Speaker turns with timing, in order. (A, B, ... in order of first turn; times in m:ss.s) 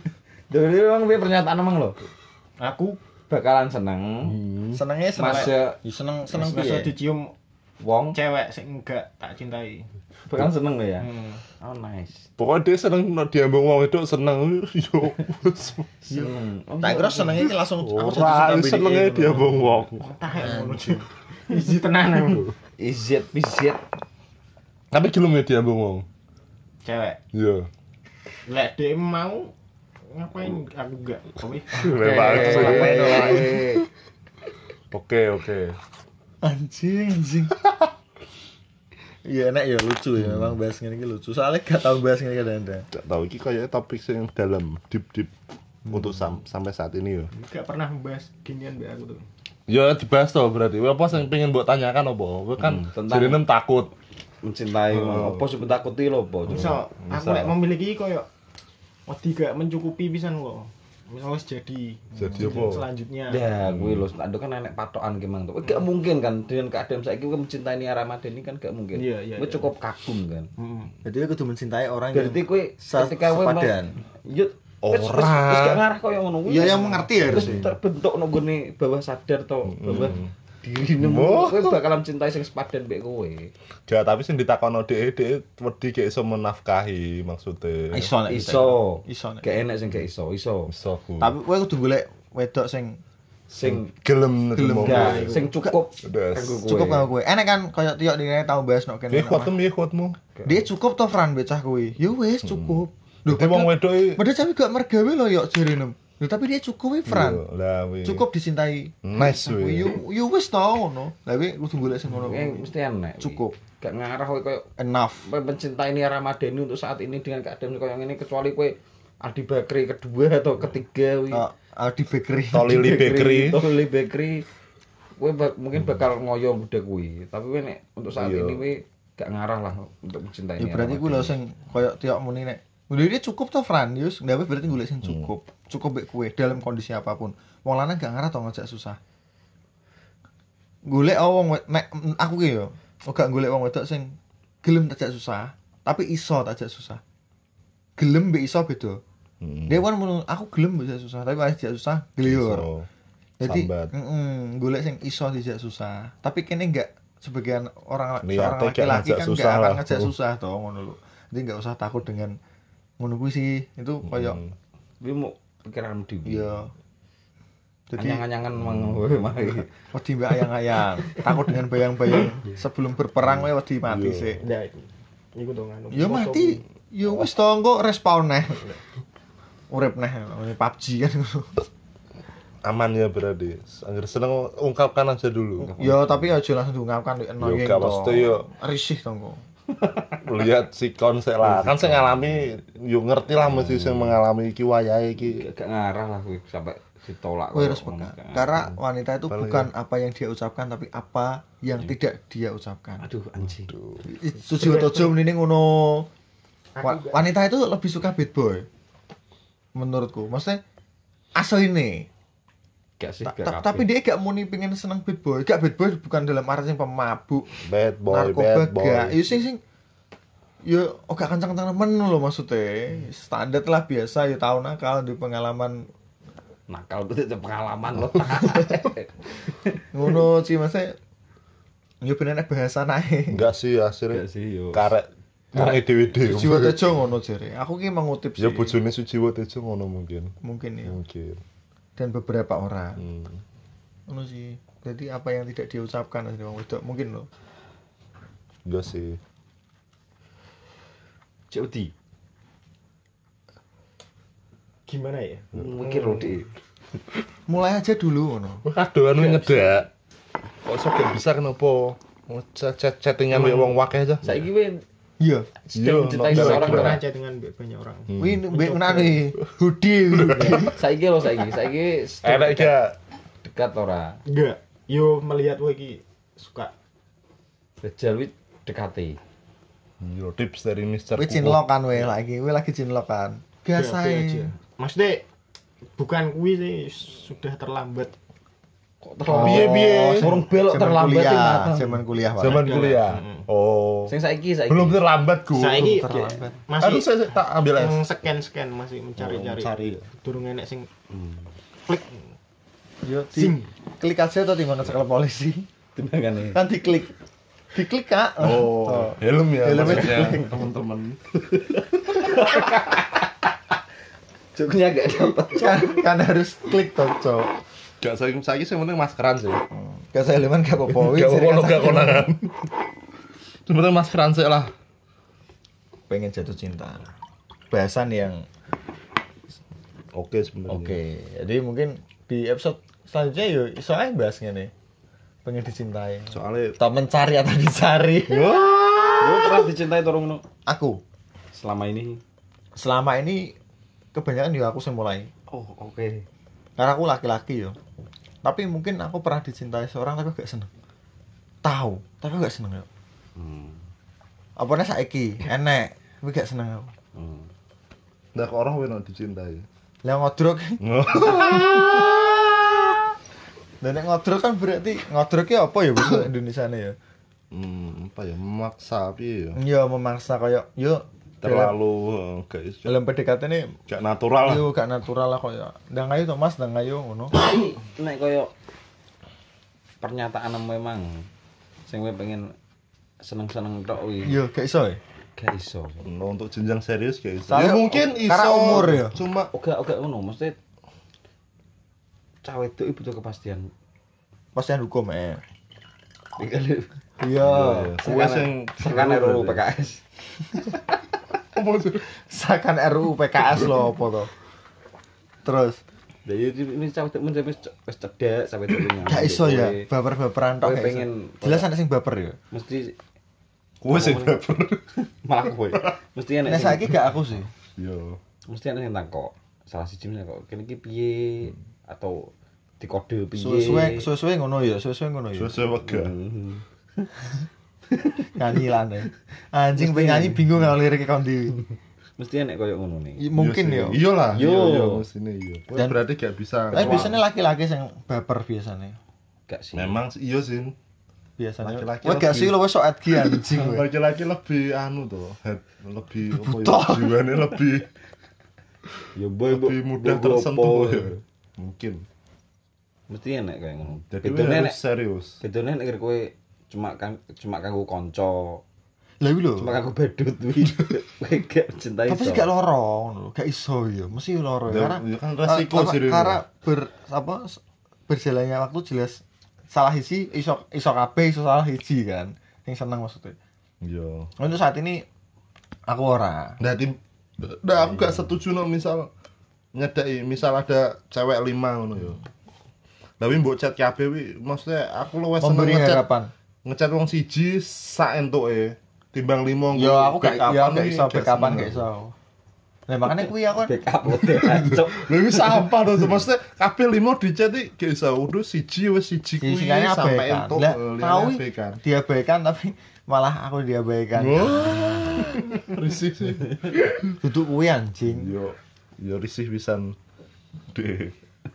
0:00.5-0:02.0 A
0:02.6-0:03.0 B
0:03.3-0:04.4 A
0:04.3-0:04.8 C
0:04.7-0:06.9 D
0:05.2-0:05.8 A
0:06.3-0:07.3 B
0:07.8-0:08.2 A
0:08.1-0:09.9 B
0:10.3-0:12.3 A
0:11.0-0:11.4 B
0:12.4-0:15.9 C
0:16.0-0:17.5 A
0:16.1-0:19.8 D
0:17.8-0:20.5 C
0:20.0-0:22.5 B
0:20.4-0:21.0 D
0:22.8-0:23.8 A
0:24.9-0:26.0 C
0:26.8-0:27.2 B
0:27.3-0:27.7 C
0:28.5-0:29.5 B
0:30.1-0:33.0 B
0:31.7-0:33.7 C
0:32.0-0:33.8 A
0:32.1-0:33.6 D
0:34.9-0:35.8 C
0:36.4-0:37.6 D
0:39.2-0:42.9 D
0:40.2-0:40.6 C
0:42.9-0:45.3 C
0:45.9-0:47.3 C
0:47.3-0:49.2 B
0:49.7-0:53.9 C
0:52.6-0:53.4 A
0:54.4-0:56.8 A
0:54.9-0:55.5 C
0:56.4-0:58.3 B
0:56.5-0:57.5 C
0:59.1-1:03.5 B
1:02.2-1:02.8 C
1:03.3-1:10.5 A
1:03.6-1:04.1 C
1:08.9-1:09.7 B
1:10.6-1:10.9 B
1:11.0-1:14.0 D
1:12.1-1:23.5 A
1:14.8-1:15.8 C
1:16.5-1:17.7 D
1:17.3-1:17.7 C
1:19.6-1:20.3 C
1:21.0-1:21.8 C
1:23.9-1:28.1 C
1:27.9-1:29.5 D
1:28.3-1:30.7 A
1:30.7-1:31.3 C
1:31.2-1:33.0 D
1:33.5-1:33.9 A
1:33.6-1:35.5 C
1:34.5-1:35.8 D
1:34.8-1:37.1 A
1:35.0-1:35.4 B
1:36.0-1:36.6 C
1:36.6-1:39.5 D
1:39.1-1:40.2 C
1:40.3-1:40.6 A
1:40.4-1:47.4 D
1:42.4-1:44.2 C
1:47.0-1:48.2 C
1:48.0-1:52.7 D
1:49.0-1:50.0 C
1:52.1-1:54.7 A
1:53.2-1:53.6 D
1:54.8-1:55.3 D
1:55.2-2:01.4 A
2:01.3-2:02.9 D
2:02.5-2:03.7 C
2:02.6-2:04.4 A
2:05.2-2:11.3 A
2:08.2-2:08.6 C
2:10.6-2:19.0 D
2:15.0-2:15.3 C
2:20.8-2:27.0 D
2:28.0-2:29.0 D
2:29.4-2:29.8 C
2:29.7-2:32.7 D
2:32.2-2:32.9 C
2:33.4-2:42.4 D
2:33.4-2:33.9 C
2:38.2-2:40.1 C
2:43.0-2:44.4 D
2:44.0-2:44.5 C
2:45.0-2:46.6 A
2:46.2-2:46.7 D
2:47.9-2:48.2 D
2:48.0-2:49.7 A
2:48.6-2:49.0 C
2:49.9-2:54.4 D
2:53.2-2:54.4 C
2:54.4-2:56.6 B
2:55.9-2:58.8 D
2:59.7-3:01.6 D
3:02.6-3:05.7 C
3:05.6-3:09.4 D
3:05.7-3:06.2 A
3:07.4-3:08.5 C
3:10.2-3:15.4 C
3:11.5-3:12.2 A
3:15.2-3:18.5 A
3:17.5-3:23.0 D
3:19.3-3:19.7 C
3:23.0-3:23.7 A
3:23.7-3:24.0 C
3:24.0-3:26.1 D
3:26.7-3:27.2 B
3:26.8-3:28.7 D
3:29.7-3:30.6 D
3:31.4-3:32.1 D
3:33.0-3:33.8 A
3:33.2-3:37.5 D
3:37.6-3:39.3 C
3:38.1-3:39.6 D
3:40.6-3:45.9 D
3:46.7-3:49.8 A
3:49.9-3:51.0 D
3:52.0-3:53.4 D
3:53.3-3:56.9 C
3:54.1-3:54.9 A
3:55.6-3:58.8 D
3:58.4-4:00.3 C
4:00.4-4:01.0 D
4:00.8-4:01.4 C
4:02.0-4:03.0 D
4:03.0-4:03.4 C
4:04.1-4:07.3 D
4:08.6-4:09.2 C
4:11.5-4:11.9 A
4:14.8-4:15.5 B
4:15.5-4:16.4 C
4:15.5-4:16.5 A
4:17.5-4:18.6 D
4:18.6-4:19.9 C
4:19.2-4:19.8 A
4:20.6-4:24.4 C
4:23.4-4:23.7 B
4:24.2-4:24.8 A
4:25.2-4:25.6 D
4:25.7-4:27.0 A
4:25.7-4:27.0 C
4:26.3-4:29.2 B
4:28.1-4:28.4 C
4:28.2-4:30.8 D
4:30.1-4:30.6 C
4:30.3-4:30.7 B
4:30.6-4:32.7 A
4:32.2-4:33.0 C
4:33.4-4:34.2 A
4:34.3-4:36.7 B
4:37.8-4:39.2 A
4:40.0-4:41.6 C
4:41.2-4:44.5 D
4:43.7-4:45.2 B
4:46.0-4:48.1 B
4:49.0-4:52.0 A
4:49.2-4:52.8 D
4:49.3-4:50.3 C
4:52.4-4:54.1 C
4:52.5-4:53.4 B
4:54.1-4:55.0 A
4:54.7-4:56.0 C
4:55.5-4:57.1 B
4:55.8-4:56.6 D
4:56.8-4:58.0 C
4:57.7-5:00.9 B
4:59.2-5:00.0 C
5:01.1-5:01.5 A
5:01.9-5:02.2 B
5:03.0-5:05.7 D
5:03.3-5:03.7 B
5:05.9-5:06.6 A
5:06.5-5:07.1 D
5:07.7-5:10.6 D
5:08.4-5:11.8 C
5:09.8-5:10.3 A
5:12.1-5:13.3 A
5:14.5-5:16.0 A
5:15.5-5:17.5 D
5:18.0-5:19.6 C
5:19.7-5:22.3 D
5:20.9-5:22.5 C
5:23.7-5:24.7 C
5:26.1-5:27.0 D
5:27.7-5:28.4 D
5:30.1-5:31.0 C
5:30.7-5:34.7 D
5:35.4-5:38.5 D
5:36.3-5:36.8 C
5:38.3-5:39.7 C
5:39.2-5:40.4 A
5:40.6-5:41.0 D
5:41.5-5:42.2 A
5:42.8-5:43.6 D
5:44.1-5:45.3 D
5:45.5-5:46.2 A
5:46.8-5:47.8 D
5:48.4-5:50.7 D
5:51.6-5:52.9 D
5:53.4-5:53.8 A
5:54.6-5:56.9 D
5:57.1-5:57.5 A
5:58.3-5:59.6 C
6:00.0-6:02.1 D
6:00.8-6:03.0 C
6:03.8-6:07.0 D
6:07.5-6:09.6 C
6:09.6-6:11.7 D
6:11.4-6:12.9 C
6:12.8-6:13.8 D
6:13.9-6:14.6 C
6:14.4-6:17.4 D
6:17.4-6:18.5 A
6:20.0-6:21.3 A
6:21.9-6:22.5 A
6:23.2-6:24.4 A
6:24.2-6:25.0 D
6:25.4-6:26.0 A
6:26.0-6:29.5 C
6:27.5-6:29.2 D
6:29.5-6:30.5 A
6:32.4-6:33.7 A
6:34.5-6:35.4 D
6:36.4-6:36.9 A
6:37.2-6:38.4 D
6:37.4-6:39.6 C
6:37.9-6:40.0 A
6:41.5-6:42.0 C
6:42.2-6:44.3 D
6:43.5-6:44.2 C
6:45.4-6:45.8 D
6:46.2-6:49.9 A
6:49.0-6:52.4 D
6:50.6-6:51.7 A
6:52.5-6:53.0 A
6:53.8-6:54.9 C
6:53.9-6:54.4 A
6:55.0-6:57.1 A
6:56.4-6:57.5 D
6:57.8-6:58.2 C
6:58.5-7:04.1 A
7:03.4-7:03.9 C
7:03.5-7:05.6 D
7:05.3-7:06.1 C
7:05.8-7:07.1 A
7:07.9-7:08.6 A
7:08.3-7:11.6 D
7:09.8-7:10.7 A
7:12.2-7:13.2 A
7:13.2-7:14.0 D
7:13.3-7:17.2 C
7:14.3-7:15.0 A
7:16.7-7:17.2 A
7:16.7-7:19.0 D
7:19.5-7:20.0 A
7:19.7-7:20.8 C
7:21.4-7:23.8 D
7:21.6-7:27.9 C
7:26.3-7:27.1 D
7:29.2-7:31.2 A
7:29.5-7:32.0 C
7:33.1-7:34.8 A
7:34.0-7:35.4 C
7:35.4-7:38.6 A
7:39.2-7:39.8 D
7:39.6-7:42.5 A
7:42.1-7:53.4 D
7:44.7-7:46.4 C
7:53.8-7:54.3 C
7:54.4-7:55.0 D
7:55.9-7:56.6 D
7:56.6-7:59.1 C
7:59.7-8:02.2 C
8:03.2-8:06.0 C
8:05.4-8:06.3 D
8:06.6-8:11.8 C
8:09.7-8:12.1 D
8:12.9-8:13.8 D
8:13.1-8:15.8 A
8:14.1-8:21.8 C
8:19.4-8:25.6 D
8:24.2-8:27.2 C
8:27.2-8:28.3 D
8:28.1-8:30.0 C
8:30.7-8:31.1 C